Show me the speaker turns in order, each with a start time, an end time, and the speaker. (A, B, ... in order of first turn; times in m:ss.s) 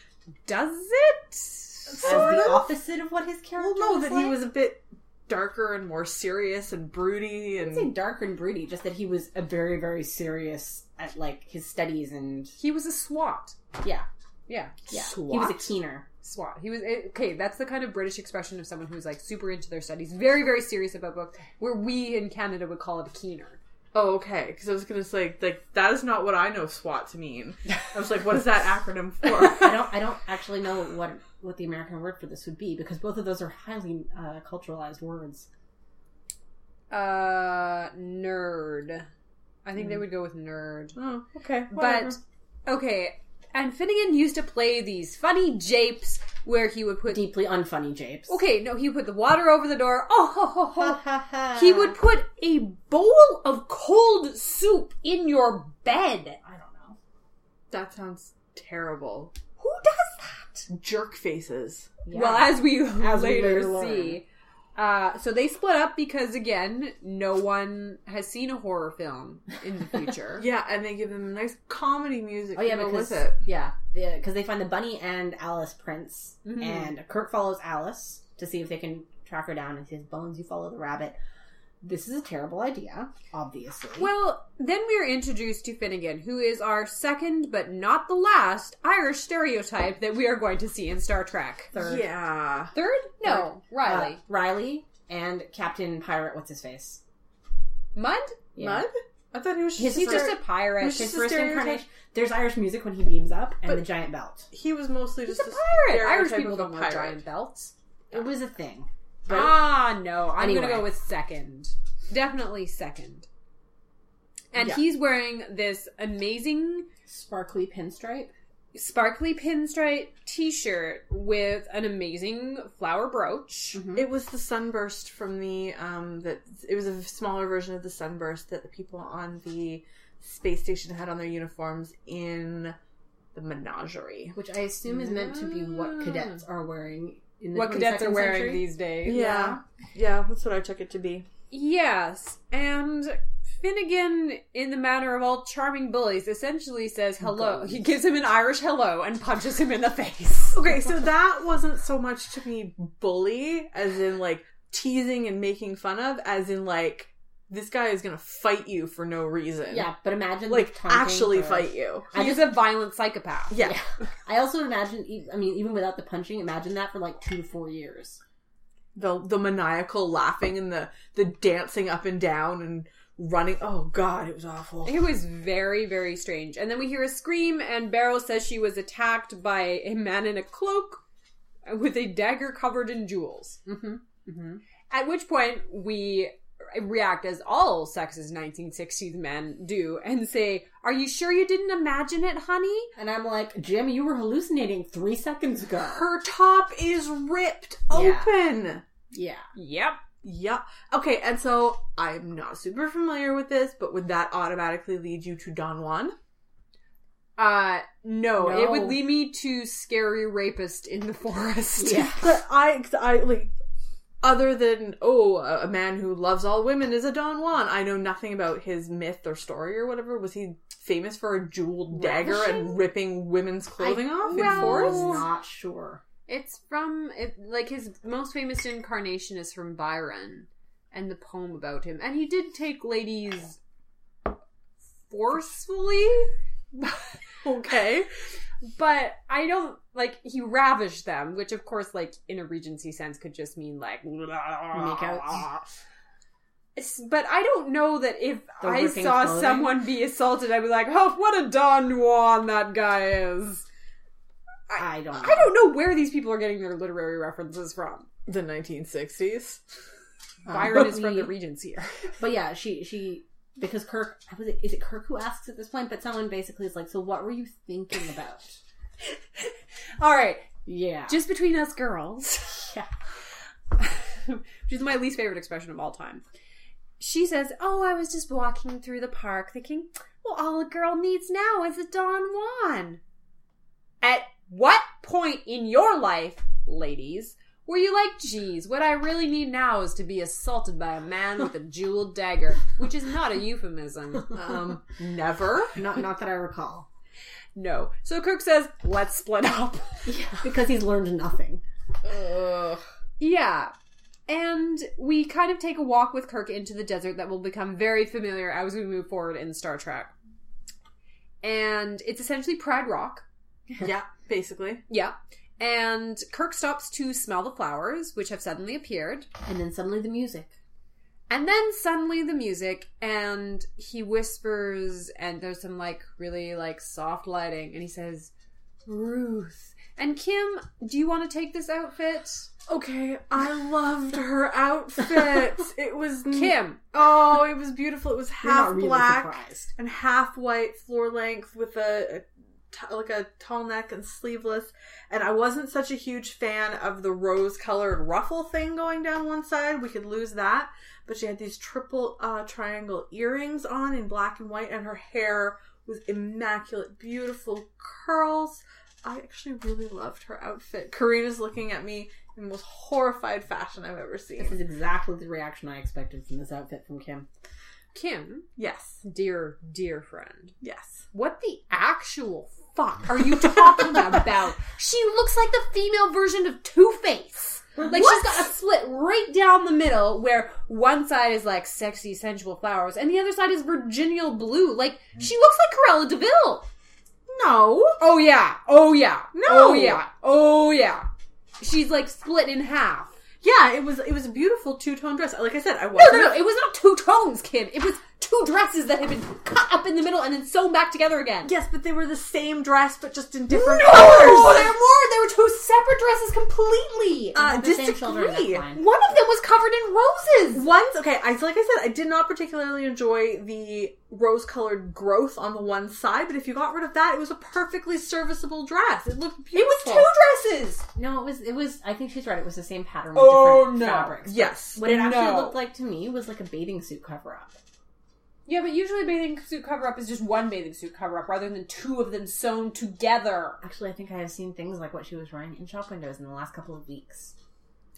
0:00.4-0:02.4 A
0:01.9-0:02.7 B
0:02.0-0:04.4 C
0:03.6-0:07.9 B
0:07.6-0:12.5 C
0:12.6-0:13.6 A
0:13.8-0:14.1 C
0:14.5-0:14.8 A
0:14.9-0:15.6 B
0:14.9-0:16.0 C
0:16.2-0:23.6 A
0:23.9-0:29.8 B
0:29.4-0:35.5 C
0:36.9-0:39.1 A
0:39.6-0:41.0 A
0:40.9-0:42.2 B
0:41.7-0:47.3 A
0:47.1-0:48.3 C
0:48.3-0:56.4 A
0:50.8-0:51.9 C
0:56.4-0:57.0 C
0:57.7-0:59.3 B
0:59.6-1:00.7 A
1:00.7-1:02.0 B
1:02.0-1:04.2 C
1:02.1-1:10.4 A
1:10.4-1:13.4 B
1:12.5-1:21.2 C
1:16.4-1:16.9 A
1:21.8-1:24.1 C
1:24.0-1:31.7 A
1:31.7-1:32.1 C
1:31.8-1:32.7 B
1:32.7-1:34.2 A
1:33.2-1:37.0 C
1:37.9-1:38.4 A
1:38.6-1:38.9 C
1:38.6-1:41.8 B
1:39.8-1:44.5 C
1:39.8-1:41.2 A
1:44.5-1:47.2 B
1:45.2-1:48.2 A
1:48.1-1:49.8 C
1:49.3-1:53.3 A
1:50.4-1:50.9 C
1:54.5-1:56.9 A
1:54.6-1:54.8 B
1:57.1-1:58.3 C
1:58.7-2:03.8 A
2:03.7-2:04.0 C
2:03.9-2:12.8 B
2:13.3-2:14.3 B
2:14.3-2:19.5 C
2:15.3-2:16.0 A
2:17.5-2:19.6 A
2:19.0-2:21.2 B
2:21.5-2:30.6 A
2:27.2-2:27.8 C
2:30.5-2:39.9 B
2:39.7-2:42.5 C
2:40.5-2:42.1 B
2:42.1-2:43.6 A
2:43.5-2:43.8 B
2:43.6-2:48.2 C
2:48.9-2:55.0 B
2:54.8-3:01.0 A
3:01.6-3:03.6 A
3:03.6-3:04.6 C
3:04.9-3:12.9 A
3:13.0-3:16.0 C
3:15.8-3:18.8 B
3:17.9-3:18.3 C
3:19.1-3:19.4 C
3:19.6-3:20.0 A
3:20.2-3:26.1 B
3:27.4-3:32.1 A
3:28.3-3:29.1 C
3:31.8-3:32.3 C
3:32.2-3:33.5 B
3:34.2-3:45.2 B
3:41.9-3:42.7 C
3:43.8-3:46.0 C
3:44.1-3:45.2 A
3:46.3-3:53.6 A
3:55.1-3:57.1 A
3:57.4-3:58.1 B
3:58.6-4:05.7 A
4:04.7-4:05.5 C
4:06.8-4:13.6 A
4:08.6-4:09.7 C
4:14.7-4:18.1 A
4:14.8-4:15.4 C
4:18.3-4:19.6 B
4:20.4-4:21.3 C
4:20.4-4:21.9 A
4:22.2-4:28.6 C
4:29.4-4:30.5 A
4:30.6-4:31.2 C
4:31.1-4:32.5 A
4:32.6-4:32.9 C
4:33.8-4:36.2 A
4:37.0-4:43.0 A
4:44.0-4:54.3 A
4:54.3-4:55.8 B
4:55.8-4:56.9 C
4:57.5-5:00.1 A
5:00.0-5:01.6 C
5:02.0-5:02.8 B
5:03.2-5:03.7 A
5:04.3-5:10.1 A
5:11.4-5:13.2 A
5:13.8-5:14.8 B
5:14.9-5:19.3 A
5:19.4-5:20.5 C
5:21.3-5:28.3 A
5:28.8-5:32.5 A
5:32.7-6:04.6 B
5:36.3-5:36.8 A
5:38.4-5:39.7 C
6:04.4-6:07.3 C
6:07.9-6:08.4 A
6:08.6-6:09.0 B
6:09.0-6:10.5 A
6:10.6-6:11.0 B
6:11.1-6:26.7 A
6:17.9-6:18.3 B
6:27.3-6:28.0 B
6:28.0-6:31.1 A
6:29.3-6:30.0 B
6:31.6-6:33.1 A
6:33.4-6:36.4 B
6:35.9-6:41.5 A
6:41.4-6:44.8 B
6:43.5-6:47.4 A
6:47.3-6:48.6 B
6:47.4-6:48.8 C
6:48.7-6:50.6 A
6:50.5-7:00.1 B
6:59.5-7:00.8 A
7:00.9-7:07.6 C
7:03.1-7:05.6 A
7:04.2-7:04.8 B
7:08.5-7:13.6 A
7:13.6-7:17.3 C